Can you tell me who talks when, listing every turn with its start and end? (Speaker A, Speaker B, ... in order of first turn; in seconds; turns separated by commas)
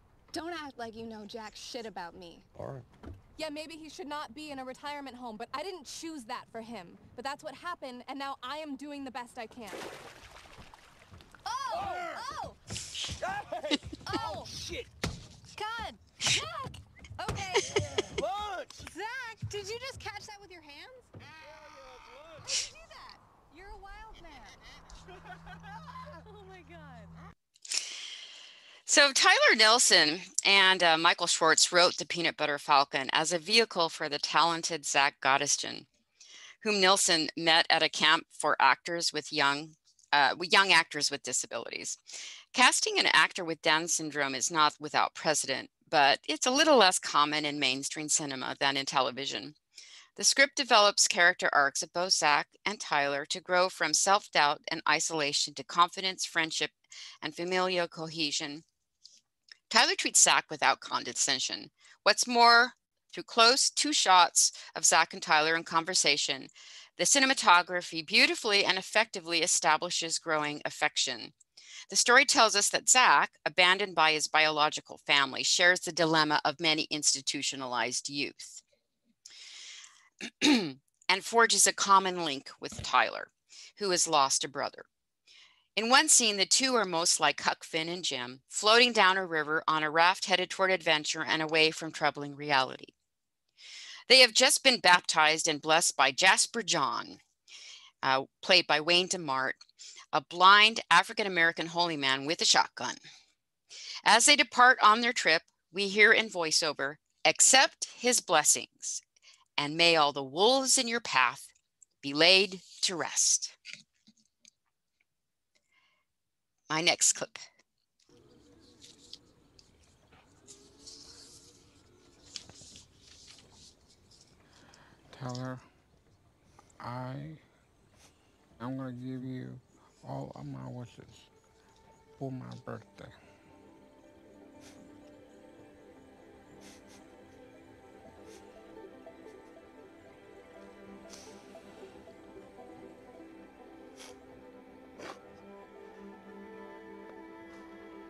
Speaker A: 0.3-2.5, Speaker B: 2.5-2.9, Speaker A: 3.4-9.9, Speaker A: 11.4-12.6, Speaker B: 11.7-12.2, Speaker B: 13.1-14.9, Speaker A: 14.0-14.5, Speaker A: 15.5-18.1, Speaker B: 17.6-18.9, Speaker A: 18.9-21.2, Speaker B: 21.4-22.5, Speaker A: 22.4-24.6, Speaker A: 25.9-27.2, Speaker C: 28.9-35.9, Speaker C: 36.6-42.0, Speaker C: 42.5-49.5, Speaker C: 50.1-58.6, Speaker C: 59.7-71.3, Speaker C: 71.9-78.6, Speaker C: 80.2-84.8, Speaker C: 85.8-92.9, Speaker C: 94.1-97.2, Speaker C: 98.0-99.6, Speaker C: 100.1-103.0, Speaker C: 104.0-109.0, Speaker C: 109.6-111.5, Speaker C: 112.0-113.5, Speaker C: 116.7-117.4, Speaker D: 125.1-125.6, Speaker D: 126.8-127.4, Speaker D: 128.6-131.3, Speaker D: 132.2-133.2